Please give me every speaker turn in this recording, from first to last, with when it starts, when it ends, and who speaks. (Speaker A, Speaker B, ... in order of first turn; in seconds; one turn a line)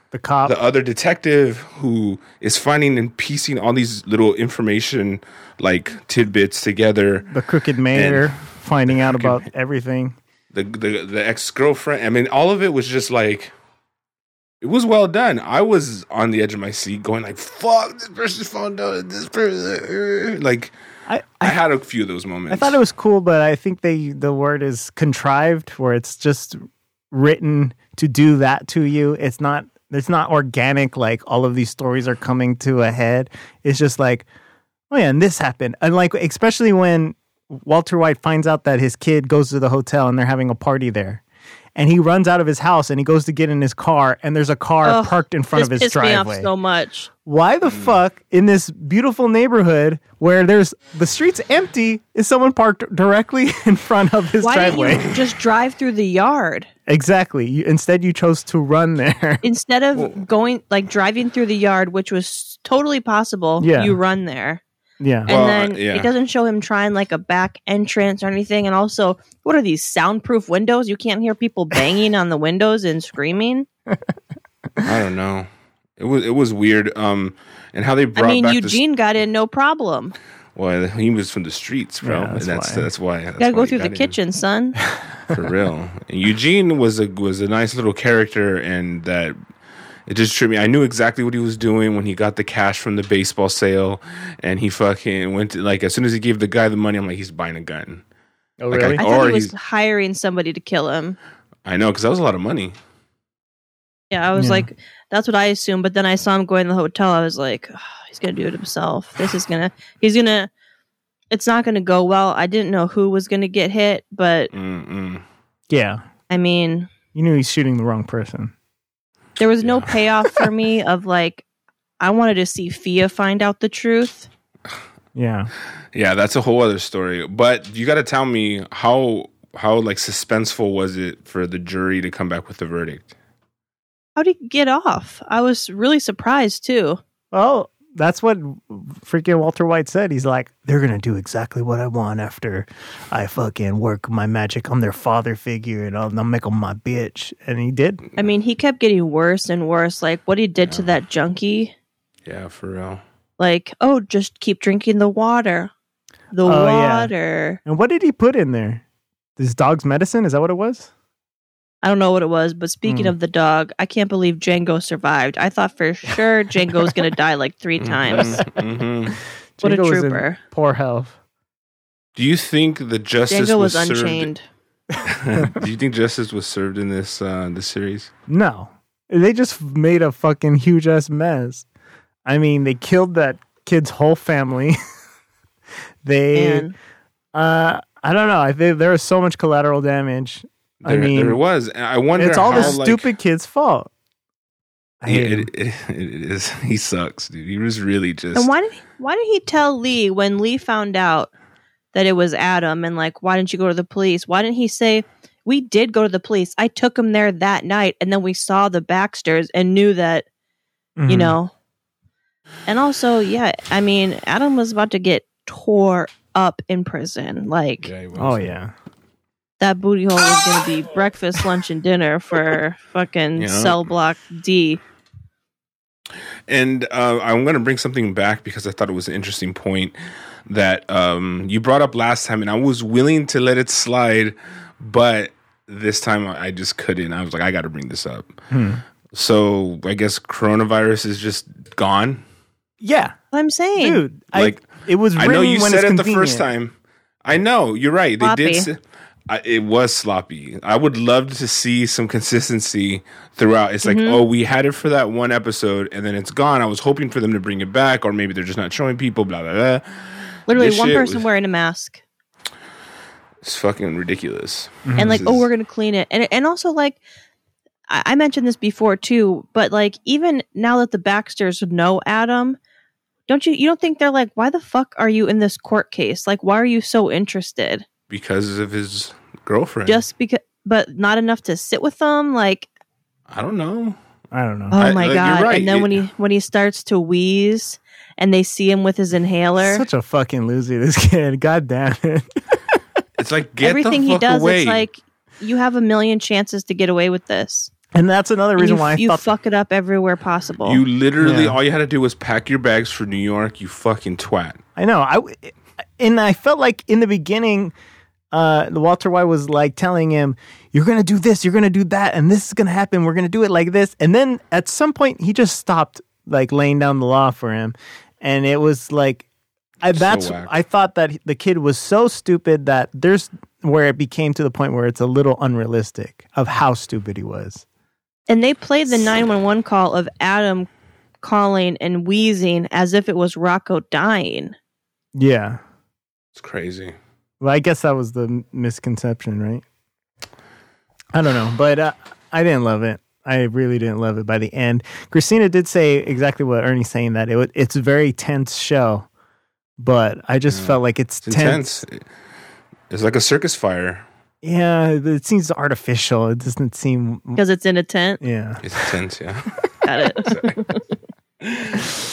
Speaker A: 0.1-0.6
Speaker B: 0.5-7.3
Speaker A: 7.3-10.2
Speaker B: 7.9-8.3
Speaker B: 8.9-9.4
Speaker B: 10.5-13.5
Speaker B: 14.6-20.7
Speaker A: 21.1-21.6
Speaker B: 21.4-22.8
Speaker A: 22.5-26.6
Speaker A: 27.1-34.3
Speaker A: 34.9-41.2
Speaker A: 41.8-46.5
Speaker C: 44.8-47.1
Speaker A: 47.2-55.2
Speaker B: 47.6-48.0
Speaker C: 54.4-56.7
Speaker A: 56.9-59.4
Speaker C: 59.4-64.6
Speaker A: 63.6-64.0
Speaker A: 65.0-65.3
Speaker C: 65.3-73.7
Speaker B: 65.3-66.1
Speaker B: 74.8-75.5
Speaker B: 76.0-78.8
Speaker C: 78.2-80.2
Speaker B: 80.6-84.2
Speaker A: 82.0-82.9
Speaker C: 83.4-84.8
Speaker B: 85.3-89.4
Speaker B: 90.1-98.0
Speaker A: 98.6-99.0
Speaker B: 98.7-99.5
Speaker C: 99.0-101.2
Speaker B: 101.7-102.8
Speaker C: 104.1-110.5
Speaker A: 104.4-104.7
Speaker C: 111.3-114.5
Speaker B: 114.5-115.2
Speaker A: 115.7-116.0
Speaker C: 116.3-116.9
Speaker A: 117.2-118.5
Speaker C: 119.4-121.4
Speaker B: 119.6-120.0
Speaker C: 122.0-124.3
Speaker A: 125.2-125.5
Speaker B: 125.9-133.1
Speaker C: 134.2-137.0
Speaker A: 137.3-148.0
Speaker C: 148.2-151.7
Speaker B: 152.2-153.0
Speaker C: 153.4-155.7
Speaker C: 156.3-157.6
Speaker A: 156.4-157.1
Speaker A: 157.7-158.8
Speaker A: 159.4-160.9
Speaker C: 161.8-168.4
Speaker A: 162.9-163.2
Speaker B: 167.8-169.2
Speaker A: 168.2-168.4
Speaker A: 169.6-171.2
Speaker C: 169.6-170.4
Speaker B: 172.2-174.3
Speaker C: 173.3-174.4
Speaker B: 175.1-178.1
Speaker A: 178.3-181.7
Speaker A: 182.2-184.8
Speaker A: 186.0-186.7
Speaker C: 186.3-186.8
Speaker A: 187.3-191.4
Speaker B: 190.8-193.1
Speaker A: 192.2-193.9
Speaker A: 195.0-195.5
Speaker B: 195.1-198.5
Speaker C: 198.3-201.3
Speaker C: 201.9-210.3
Speaker A: 211.0-211.4
Speaker C: 211.1-211.5
Speaker C: 212.7-217.9
Speaker B: 217.8-218.6
Speaker A: 218.2-218.7
Speaker C: 219.6-224.8
Speaker B: 223.4-223.8
Speaker B: 226.5-229.9
Speaker B: 230.5-238.4
Speaker A: 238.5-238.8
Speaker B: 239.1-242.2
Speaker A: 242.8-243.2
Speaker C: 243.3-244.0
Speaker A: 243.8-246.4
Speaker B: 244.3-248.8
Speaker C: 248.2-248.7
Speaker B: 249.3-261.2
Speaker C: 253.8-254.2
Speaker C: 260.5-262.0
Speaker B: 263.4-265.5
Speaker A: 264.9-265.2
Speaker C: 265.0-267.0
Speaker C: 267.9-272.6
Speaker C: 273.3-277.9
Speaker B: 278.1-280.0
Speaker C: 279.9-282.7
Speaker B: 283.3-284.0
Speaker A: 284.3-284.8
Speaker C: 284.7-289.9
Speaker B: 284.8-286.0
Speaker A: 289.6-292.8
Speaker B: 293.2-294.8
Speaker C: 293.6-297.7
Speaker A: 297.9-299.3
Speaker C: 298.6-300.8
Speaker B: 300.6-304.6
Speaker A: 301.2-301.6
Speaker A: 304.8-307.7
Speaker A: 308.3-319.3
Speaker A: 319.8-327.6
Speaker B: 319.9-320.6
Speaker C: 328.3-330.7
Speaker C: 331.2-334.6
Speaker A: 335.1-335.6
Speaker B: 336.4-336.9
Speaker A: 337.4-339.6
Speaker A: 341.1-349.1
Speaker A: 349.8-351.8
Speaker B: 350.5-352.0
Speaker B: 352.9-354.1
Speaker A: 354.4-357.4
Speaker C: 357.4-358.2
Speaker A: 358.2-358.9
Speaker B: 358.6-359.6
Speaker C: 359.8-360.8
Speaker B: 360.2-360.6
Speaker B: 361.4-361.9